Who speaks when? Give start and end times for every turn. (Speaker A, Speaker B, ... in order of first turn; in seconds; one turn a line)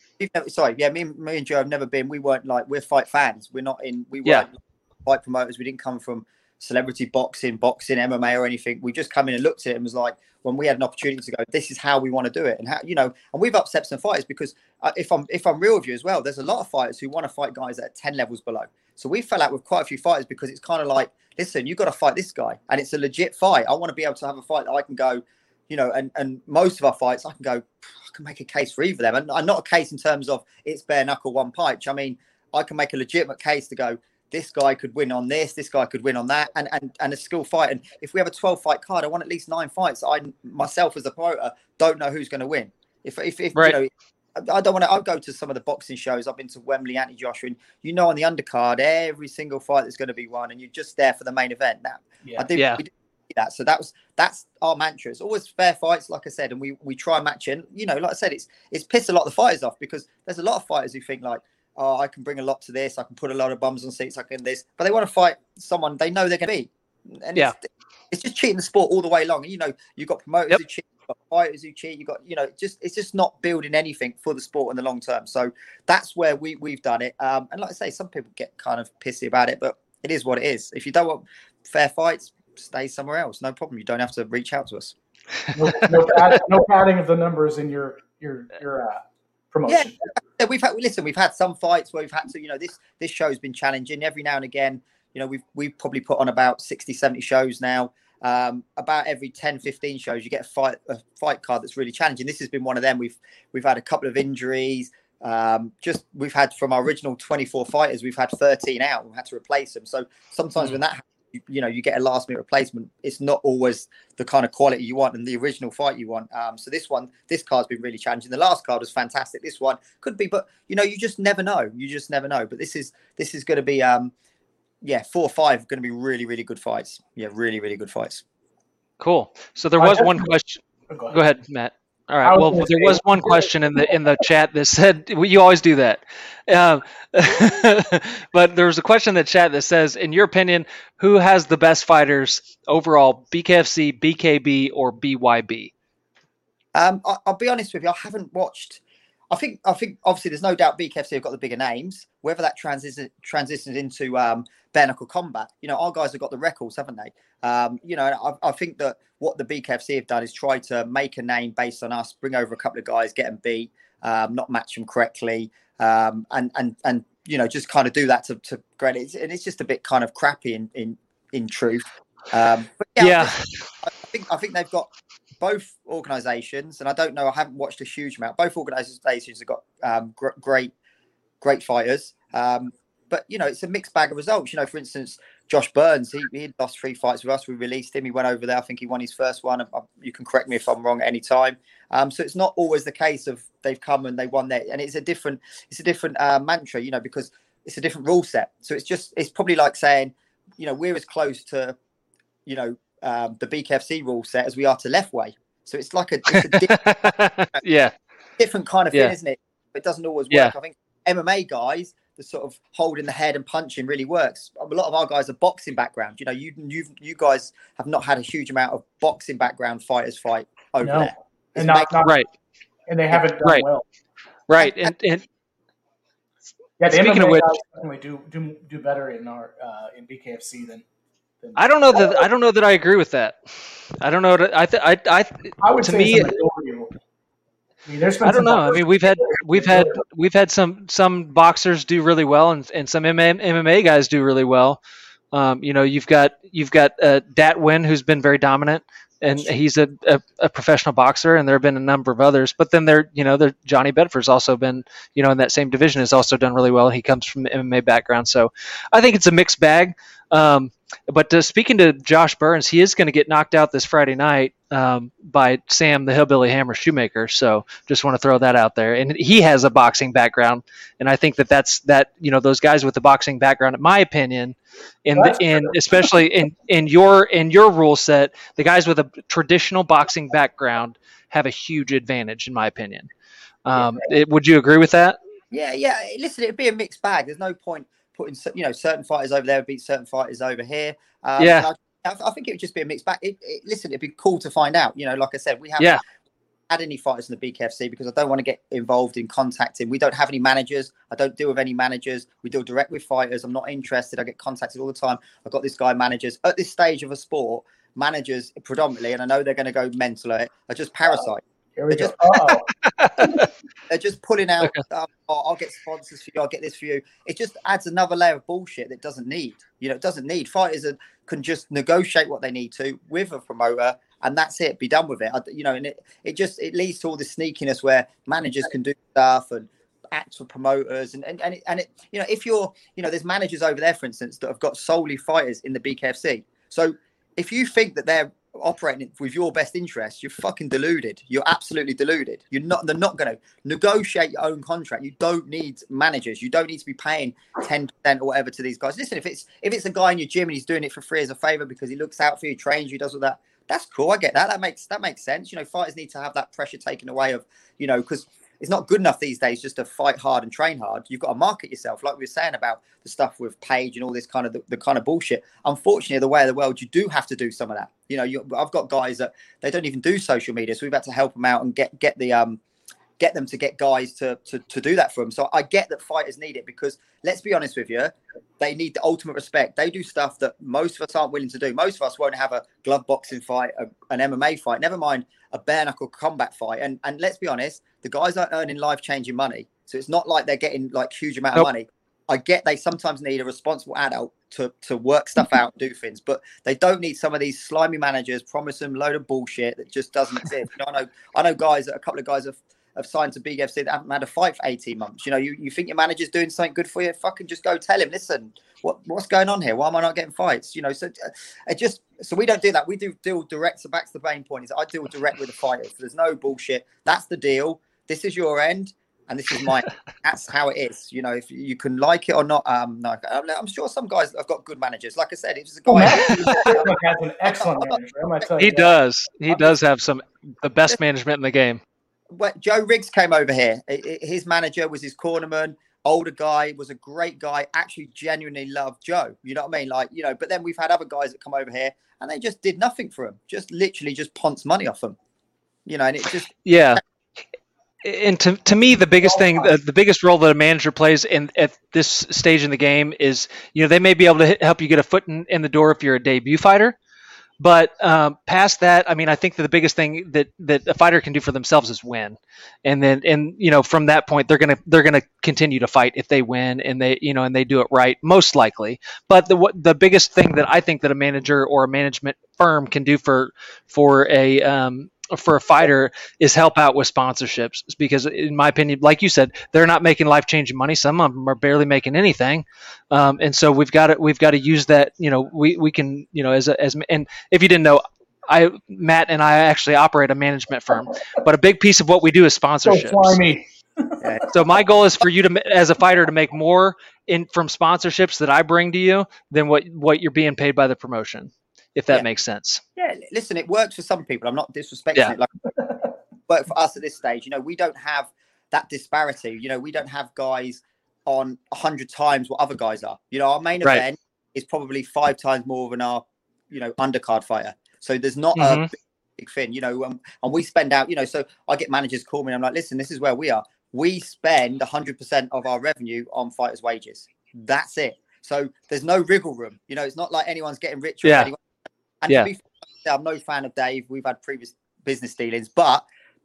Speaker A: 0.2-84.9
Speaker B: 52.5-52.8
Speaker C: 85.5-89.0
Speaker C: 89.5-90.1
Speaker A: 89.7-124.1
Speaker A: 124.8-128.2
Speaker B: 129.0-145.7
Speaker C: 129.8-130.3
Speaker C: 130.9-131.2
Speaker C: 132.2-134.1
Speaker A: 146.7-180.7
Speaker B: 173.0-173.4
Speaker A: 181.4-201.8
Speaker A: 202.4-207.2
Speaker B: 206.3-207.9
Speaker A: 208.4-221.9
Speaker C: 220.8-222.2
Speaker C: 222.9-223.8
Speaker B: 224.5-225.2
Speaker A: 224.6-224.9
Speaker C: 226.8-230.8
Speaker B: 226.9-227.5
Speaker C: 231.4-232.2
Speaker B: 231.6-233.3
Speaker B: 234.0-236.3
Speaker C: 235.6-236.9
Speaker C: 237.8-240.0
Speaker B: 238.2-244.8
Speaker B: 245.3-283.1
Speaker C: 275.1-276.1
Speaker B: 283.6-285.2
Speaker A: 285.5-296.0
Speaker B: 291.4-291.7
Speaker A: 296.7-312.2
Speaker C: 311.8-312.7
Speaker B: 312.5-313.5
Speaker A: 313.9-372.6
Speaker A: 373.2-426.9
Speaker C: 425.9-429.0
Speaker B: 426.3-426.7
Speaker A: 427.4-428.5
Speaker B: 428.6-431.8
Speaker A: 432.3-445.2
Speaker A: 445.9-447.0
Speaker B: 446.6-447.0
Speaker B: 448.0-456.9
Speaker C: 449.2-449.7
Speaker B: 457.6-493.4
Speaker C: 492.8-494.4
Speaker A: 494.2-494.4
Speaker B: 494.5-502.8
Speaker A: 503.0-505.5
Speaker A: 506.5-531.6
Speaker B: 518.5-518.9
Speaker B: 531.2-531.5
Speaker A: 532.2-536.0